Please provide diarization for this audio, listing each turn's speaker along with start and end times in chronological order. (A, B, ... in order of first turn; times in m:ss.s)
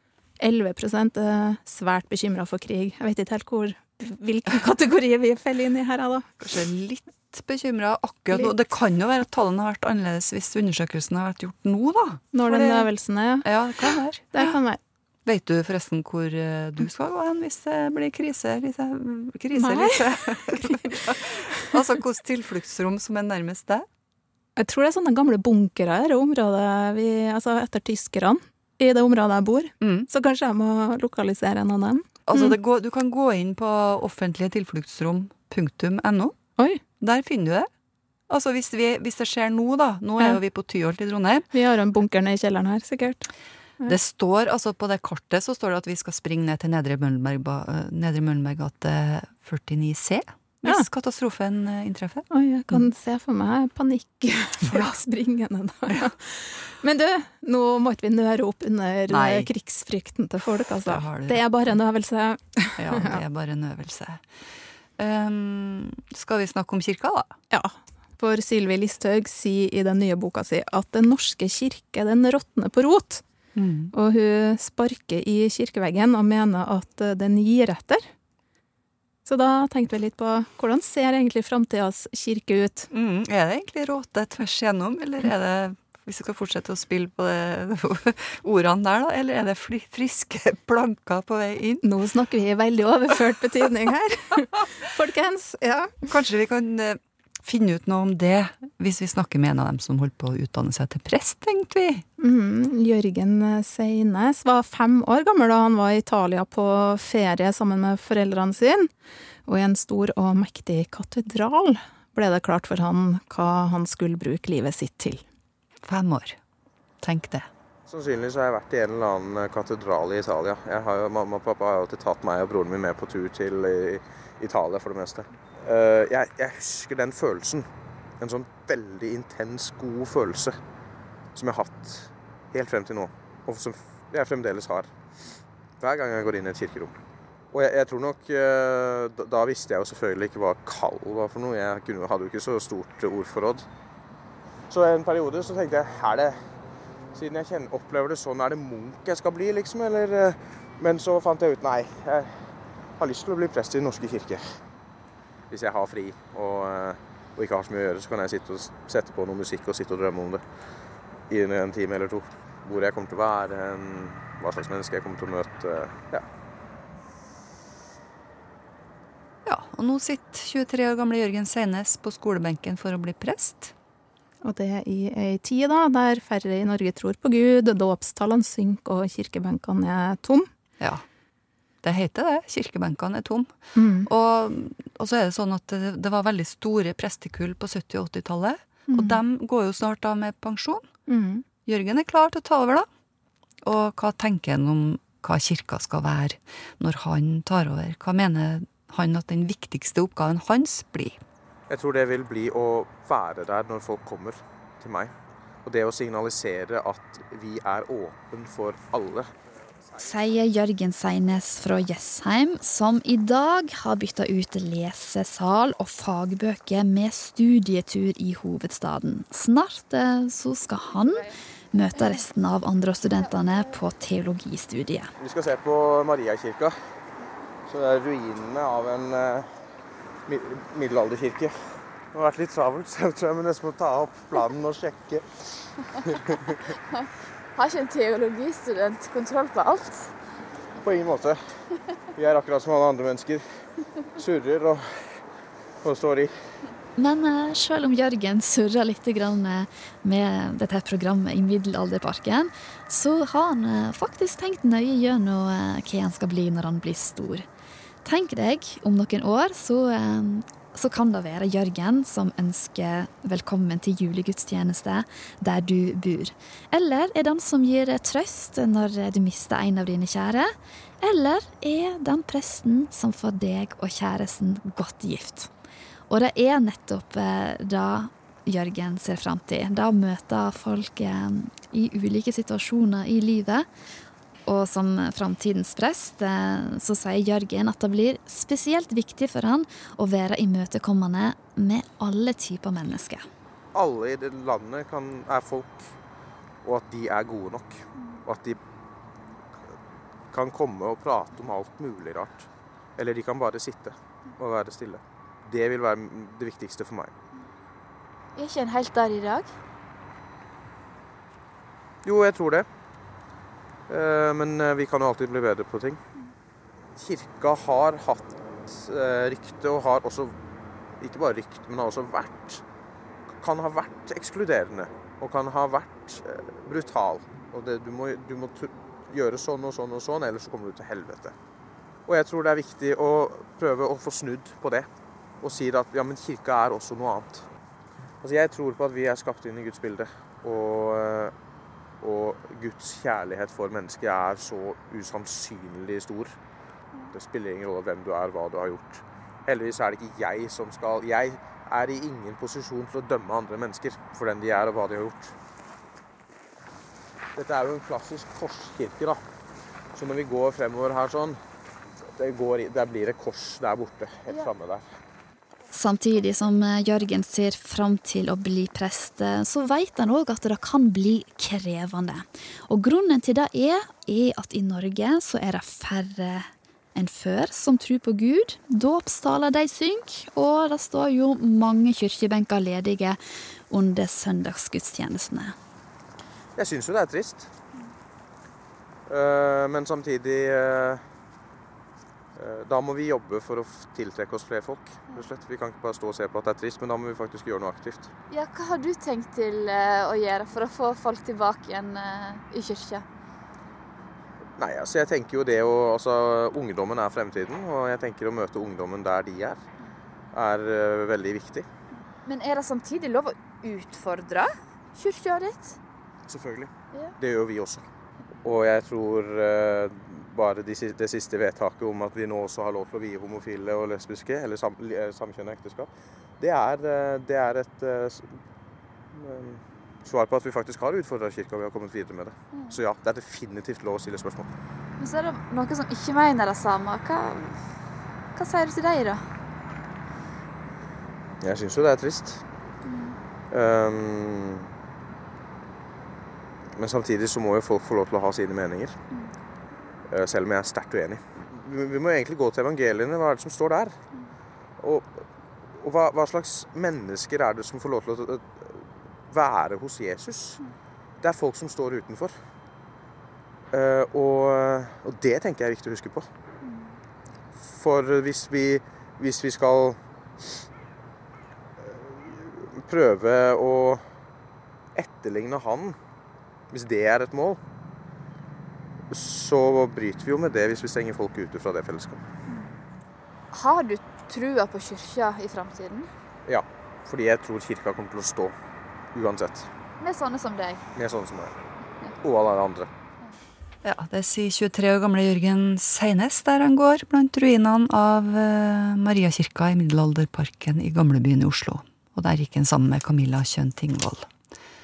0:00.4-0:06.3 A
0:06.4-0:12.9 B
0:12.3-0:14.8 A
0:13.4-0:14.6 B
0:15.2-0:23.8 B
0:19.5-0:20.8 A
0:24.6-0:32.6 A
0:29.8-0:30.1 B
0:32.3-0:36.4 B
0:37.0-0:37.7 B
0:38.3-0:41.5 B
0:41.5-0:43.3 A
0:43.8-0:52.9 B
0:52.3-1:03.2 A
0:59.1-0:59.5 B
1:00.8-1:01.4 B
1:02.8-1:04.4 B
1:05.0-1:07.3 B
1:07.5-1:13.2 A
1:13.5-1:13.9 B
1:13.9-1:18.0 A
1:19.2-1:22.9 A
1:22.9-1:31.8 B
1:31.8-1:35.9 A
1:36.0-1:42.0 B
1:42.2-1:48.9 A
1:49.4-1:55.2 A
1:55.8-1:56.4 B
1:57.0-1:57.5 B
1:57.9-2:07.7 C
2:08.2-2:10.6 C
2:11.3-2:14.9 C
2:15.8-2:16.9 C
2:17.5-2:23.6 C
2:24.7-2:26.4 C
2:27.1-2:32.4 C
2:33.0-2:34.4 C
2:35.5-2:40.4 C
2:41.3-2:46.2 C
2:49.4-2:53.7 B
2:54.4-3:00.5 A
3:00.8-3:01.0 B
3:01.8-3:10.9 B
3:03.8-3:04.1 A
3:08.9-3:09.2 A
3:11.1-3:11.4 A
3:11.6-3:12.9 B
3:13.6-3:21.2 B
3:21.7-3:25.1 C
3:25.6-3:29.3 C
3:29.9-3:45.1 D
3:45.2-3:46.8 C
3:47.7-3:49.5 C
3:50.3-3:55.7 C
3:57.6-3:59.9 E
3:59.6-4:00.1 D
4:00.8-4:01.4 C
4:02.1-4:03.6 C
4:04.2-4:05.2 C
4:05.8-4:06.3 C
4:07.0-4:17.4 D
4:18.0-4:35.5 D
4:36.1-4:43.7 D
4:44.4-4:53.2 D
4:53.7-4:55.9 C
4:56.6-4:58.6 C
5:00.3-5:07.1 C
5:08.4-5:09.4 E
5:12.0-5:12.6 C
5:13.9-5:16.0 C
5:17.0-5:20.4 C
5:21.0-5:22.6 C
5:23.4-5:31.3 C
5:32.1-5:34.9 C
5:35.4-5:37.4 C
5:38.2-5:41.3 C
5:42.0-5:46.4 C
5:47.1-5:55.3 C
5:57.3-5:59.2 C
5:59.9-6:01.4 C
6:02.2-6:04.8 C
6:05.7-6:23.2 D
6:23.7-6:25.6 D
6:26.6-6:27.5 C
6:29.1-6:31.0 C
6:32.4-6:38.1 C
6:38.3-6:42.0 E
6:39.1-6:43.0 D
6:42.6-6:42.9 E
6:44.6-6:49.6 C
6:50.3-6:51.6 C
6:52.3-6:54.4 E
6:52.4-6:52.7 D
6:55.0-6:55.7 E
6:56.2-6:57.8 C
6:58.4-7:08.4 C
7:09.1-7:14.5 C
7:15.0-7:17.2 E
7:16.4-7:17.5 D
7:18.4-7:19.0 E
7:21.4-7:22.4 C
7:23.5-7:24.7 C
7:26.8-7:29.0 C
7:30.1-7:34.0 C
7:34.8-7:35.2 C
7:35.8-7:40.6 C
7:41.2-7:42.4 C
7:43.7-7:46.3 C
7:47.6-7:50.0 C
7:51.8-7:54.0 C
7:55.0-7:56.0 C
7:56.7-7:57.6 C
7:59.1-8:02.2 C
8:03.5-8:06.1 D
8:04.8-8:05.9 E
8:06.5-8:08.5 C
8:09.1-8:09.7 C
8:10.0-8:10.5 D
8:10.1-8:10.8 E
8:10.9-8:11.5 C
8:12.2-8:12.9 C
8:13.8-8:24.3 B